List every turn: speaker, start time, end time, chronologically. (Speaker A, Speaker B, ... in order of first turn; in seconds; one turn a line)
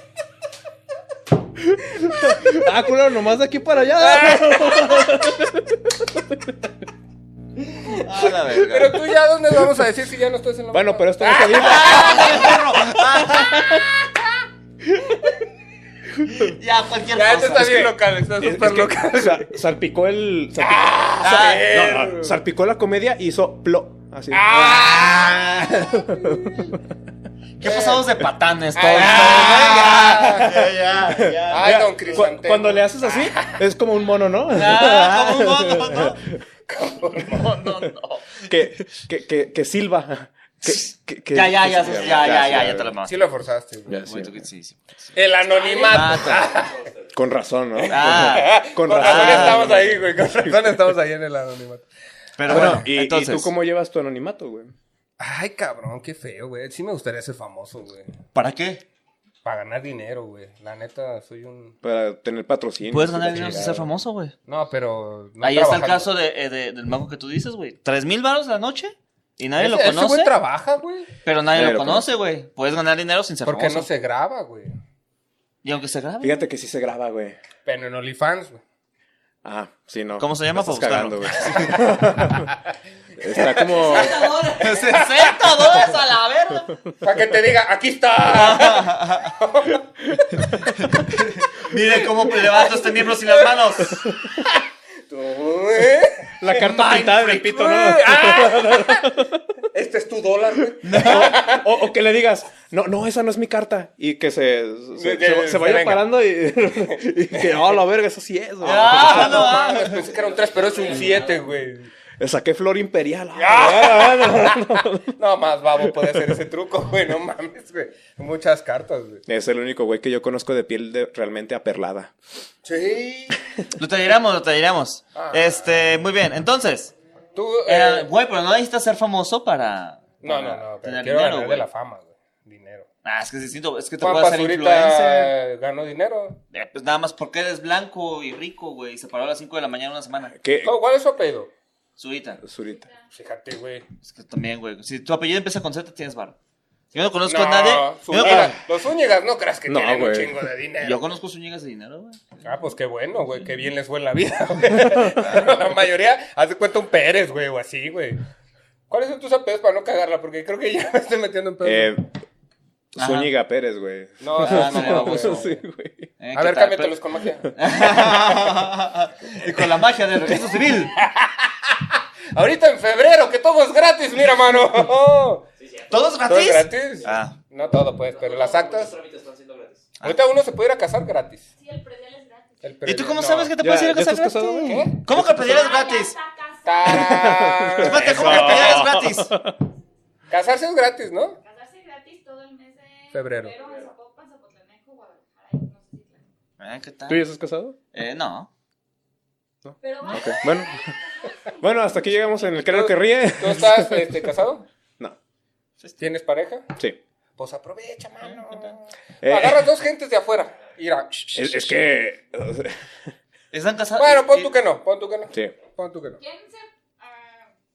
Speaker A: 1.7-6.6
Speaker B: 4.0-5.2
Speaker C: 7.9-9.1
Speaker B: 8.6-12.6
Speaker A: 10.7-13.8
Speaker C: 11.5-13.8
Speaker A: 14.9-15.3
Speaker A: 16.2-16.5
Speaker C: 16.2-17.9
Speaker B: 17.1-19.5
Speaker A: 18.4-26.8
Speaker B: 20.6-22.4
Speaker C: 21.2-21.7
Speaker B: 24.3-26.6
Speaker C: 27.6-32.3
Speaker B: 27.6-28.0
Speaker B: 28.8-30.5
Speaker A: 29.0-36.2
Speaker B: 31.5-33.6
Speaker C: 34.5-36.2
Speaker B: 36.7-37.5
Speaker C: 37.2-38.5
Speaker A: 38.5-42.9
Speaker C: 41.3-43.3
Speaker B: 43.0-44.0
Speaker A: 43.9-44.4
Speaker C: 44.1-45.1
Speaker B: 45.1-46.9
Speaker D: 45.5-46.9
Speaker C: 45.7-46.5
Speaker A: 47.1-50.8
Speaker B: 47.8-51.9
Speaker C: 47.9-49.9
Speaker C: 52.4-53.5
Speaker A: 52.5-54.7
Speaker B: 55.2-58.1
Speaker C: 58.4-58.8
Speaker B: 59.4-61.8
Speaker A: 61.8-63.9
Speaker C: 62.9-64.3
Speaker B: 64.5-66.1
Speaker C: 65.4-70.4
Speaker B: 69.6-71.1
Speaker C: 71.3-73.9
Speaker A: 71.5-72.1
Speaker B: 73.5-74.8
Speaker C: 75.6-76.4
Speaker A: 76.2-77.4
Speaker B: 77.7-78.6
Speaker A: 79.4-82.5
Speaker C: 80.2-81.8
Speaker A: 83.2-84.4
Speaker B: 83.3-85.8
Speaker D: 83.7-84.8
Speaker C: 84.4-86.7
Speaker B: 87.0-89.8
Speaker C: 88.3-89.3
Speaker C: 90.8-94.0
Speaker B: 92.3-93.6
Speaker B: 95.1-96.3
Speaker A: 96.4-99.4
Speaker C: 96.5-97.6
Speaker B: 97.5-99.2
Speaker B: 99.7-101.7
Speaker C: 100.8-101.5
Speaker A: 101.0-109.6
Speaker B: 105.0-106.1
Speaker B: 106.9-107.7
Speaker C: 108.6-110.1
Speaker B: 108.7-111.9
Speaker D: 109.8-111.5
Speaker A: 112.2-115.1
Speaker B: 113.3-119.2
Speaker A: 115.8-116.4
Speaker A: 119.3-122.1
Speaker B: 122.7-123.4
Speaker C: 123.8-126.9
Speaker B: 125.2-125.5
Speaker B: 127.3-128.1
Speaker C: 127.7-131.7
Speaker B: 130.2-132.9
Speaker C: 133.0-135.3
Speaker B: 134.0-136.4
Speaker C: 136.5-140.3
Speaker A: 140.3-140.8
Speaker B: 140.6-141.5
Speaker C: 142.0-142.4
Speaker A: 142.4-142.9
Speaker E: 142.7-143.1
Speaker B: 143.2-143.9
Speaker C: 144.0-146.4
Speaker C: 146.9-148.5
Speaker B: 147.3-151.1
Speaker A: 148.2-148.5
Speaker A: 149.7-150.4
Speaker C: 150.8-152.2
Speaker B: 152.4-158.2
Speaker B: 158.9-161.9
Speaker A: 161.6-162.1
Speaker A: 162.9-166.1
Speaker C: 163.0-163.3
Speaker B: 164.2-165.6
Speaker C: 164.4-165.5
Speaker C: 166.2-167.0
Speaker B: 166.3-167.6
Speaker C: 167.6-171.0
Speaker B: 170.9-175.5
Speaker D: 175.6-176.2
Speaker C: 175.9-177.4
Speaker B: 176.3-178.9
Speaker D: 178.0-179.9
Speaker B: 180.0-181.5
Speaker E: 181.6-182.8
Speaker B: 182.6-183.5
Speaker C: 182.9-186.2
Speaker A: 183.6-185.5
Speaker B: 184.7-184.9
Speaker E: 185.3-187.3
Speaker B: 186.7-188.8
Speaker A: 187.0-189.6
Speaker C: 187.8-189.3
Speaker B: 190.3-191.4
Speaker E: 191.4-196.2
Speaker B: 193.1-193.9
Speaker C: 196.6-197.2
Speaker A: 197.1-197.8
Speaker C: 197.9-198.5
Speaker A: 199.6-201.0
Speaker E: 199.8-202.6
Speaker A: 201.6-204.3
Speaker B: 202.6-204.7
Speaker B: 206.0-206.7
Speaker B: 207.4-211.4
Speaker A: 209.2-209.7
Speaker A: 211.3-212.8
Speaker C: 213.5-214.5
Speaker B: 214.0-216.2
Speaker E: 216.2-217.5